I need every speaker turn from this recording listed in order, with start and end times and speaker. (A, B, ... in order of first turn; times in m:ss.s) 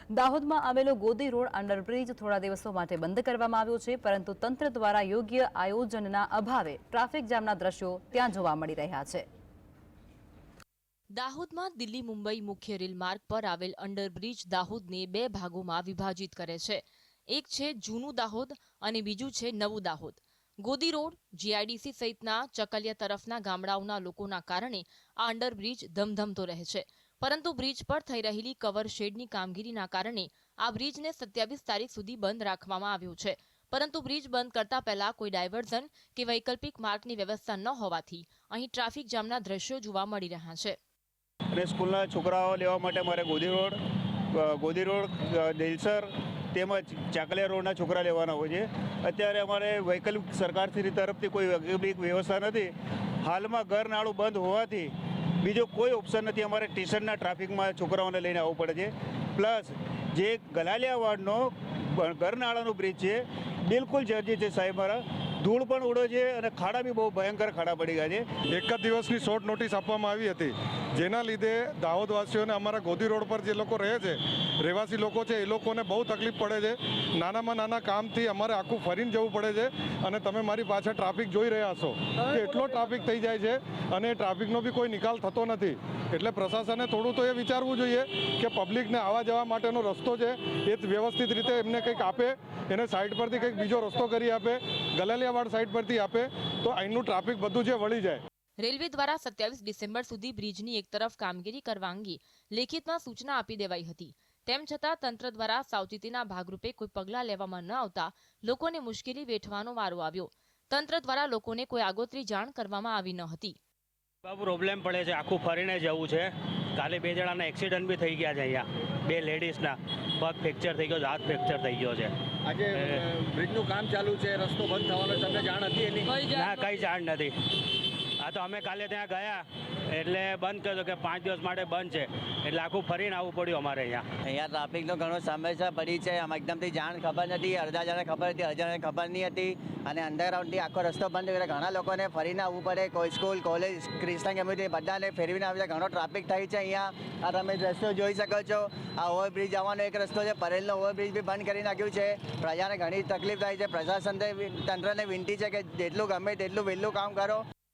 0:00.1-0:09.2 A
0:11.2-0:40.8 B
0:41.6-0:43.8 C
0:44.3-1:08.2 C
1:08.5-1:38.2 D
1:38.6-1:53.6 B
1:54.2-2:02.1 E
2:02.4-2:06.7 F
2:02.7-2:03.0 E
2:06.1-2:07.3 E
2:08.2-2:14.1 E
2:14.2-2:37.4 G